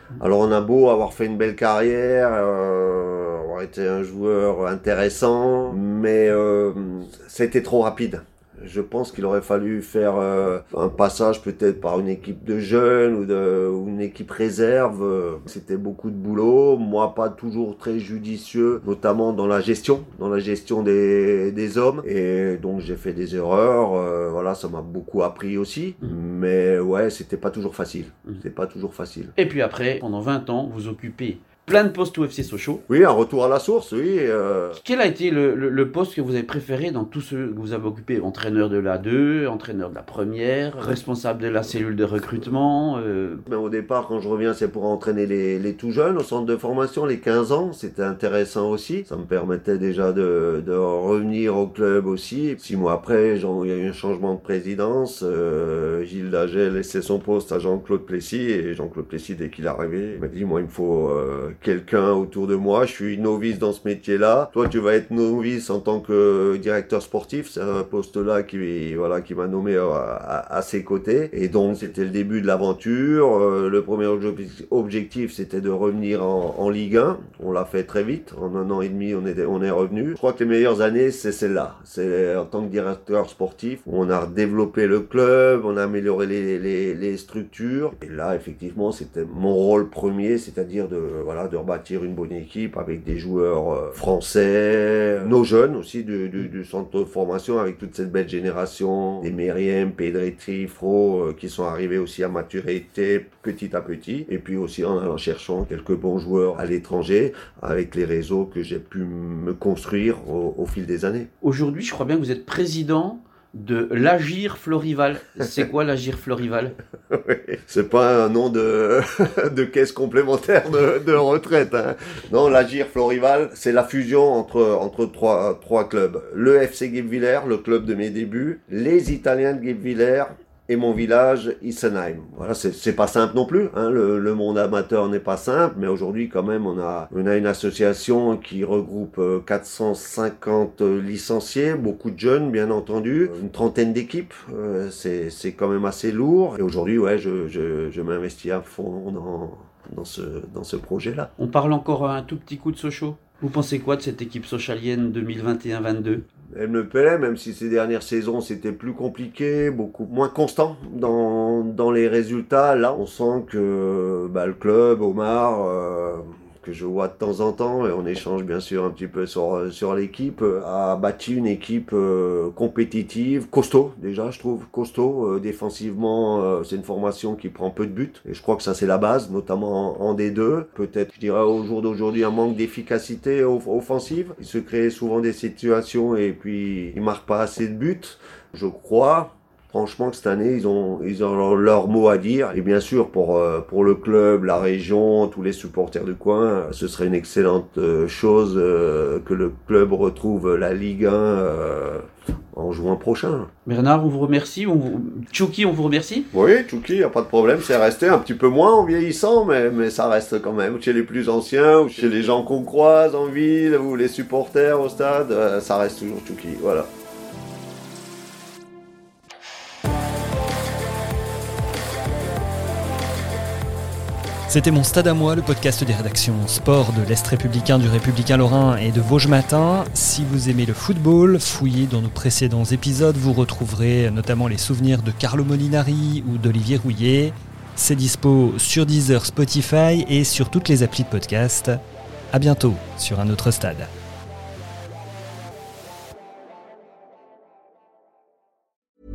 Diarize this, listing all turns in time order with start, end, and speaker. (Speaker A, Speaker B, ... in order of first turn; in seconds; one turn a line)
Speaker A: 0.2-29.3
Speaker B: 29.4-32.8
Speaker A: 32.9-34.8
Speaker B: 34.7-43.4
Speaker A: 43.5-111.3
Speaker B: 111.4-116.8
Speaker A: 117.1-151.3
Speaker B: 151.4-156.2
Speaker A: 156.5-203.5
Speaker B: 203.7-206.3
Speaker A: 206.3-216.9
Speaker C: 224.5-241.8
Speaker C: 242.3-243.9